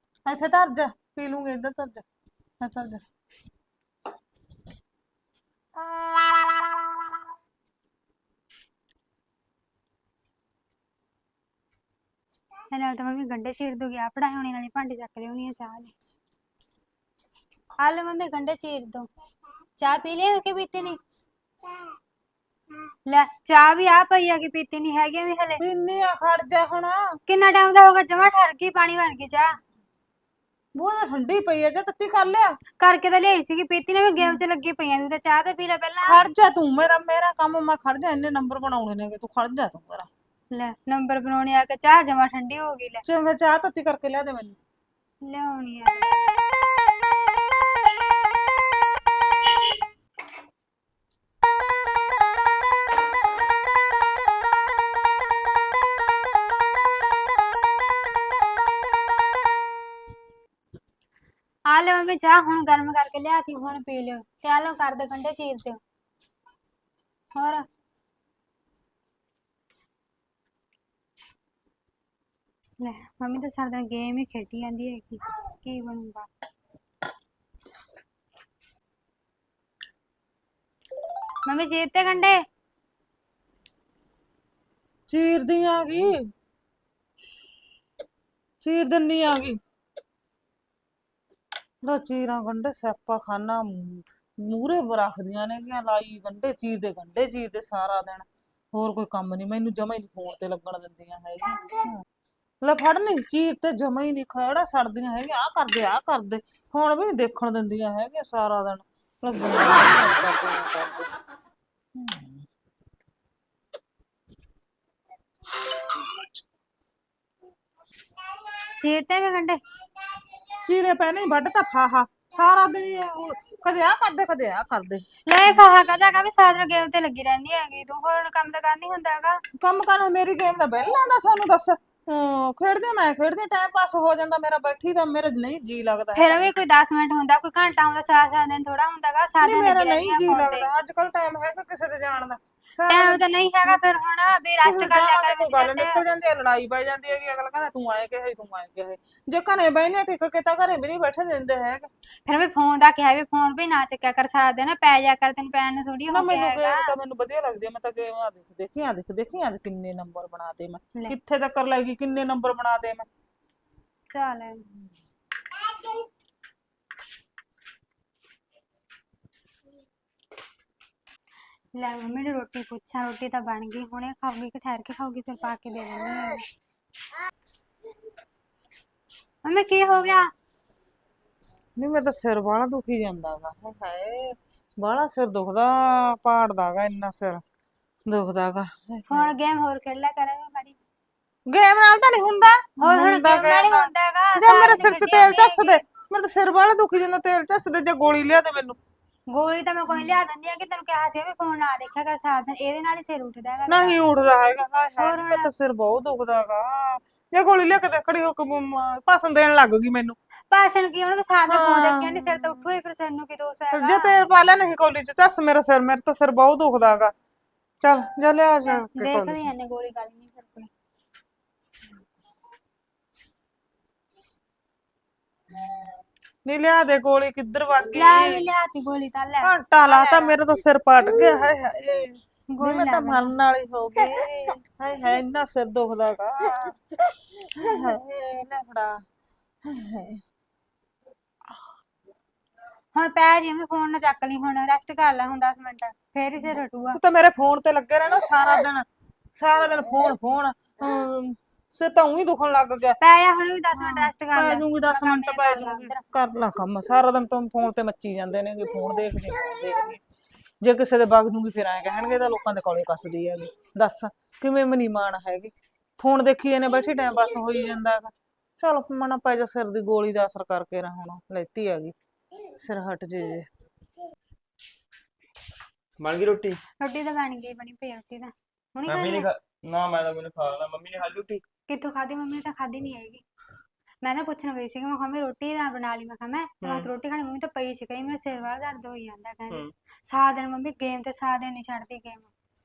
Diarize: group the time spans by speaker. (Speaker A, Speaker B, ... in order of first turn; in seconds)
Speaker A: 0.3-2.0, 2.6-3.0, 25.6-27.1, 30.8-32.6, 36.0-40.1, 43.0-44.6, 85.1-86.1, 88.6-89.6, 91.8-102.0, 102.6-111.1, 112.0-112.4, 120.6-125.7, 129.6-136.4, 139.4-143.8, 144.6-151.9, 156.1-163.1, 181.8-187.4, 188.1-189.3, 191.5-198.8, 199.9-200.1, 203.7-210.2, 211.5-212.7, 213.7-217.1, 217.8-219.5, 226.4-228.4, 229.4-236.8, 237.5-239.0, 239.7-240.2, 246.9-248.8, 249.4-253.0, 253.8-260.0, 260.6-271.9, 272.6-273.5
Speaker B: 12.7-15.9, 17.8-19.1, 19.8-21.0, 23.1-25.6, 27.3-29.6, 32.8-36.2, 40.5-43.0, 45.2-46.4, 61.7-65.8, 67.3-67.6, 72.8-76.3, 81.5-82.4, 118.8-119.6, 125.3-129.4, 136.2-140.7, 142.9-146.0, 152.3-156.9, 164.1-164.6, 171.8-176.4, 179.4-180.3, 189.1-190.8, 192.8-195.8, 199.3-204.0, 205.0-205.5, 210.5-214.2, 218.7-220.7, 227.9-230.4, 232.5-233.3, 242.9-247.0, 253.0-256.0, 276.8-279.3, 281.7-283.2, 284.0-292.3
Speaker C: 276.0-276.6, 278.9-281.4, 286.6-286.9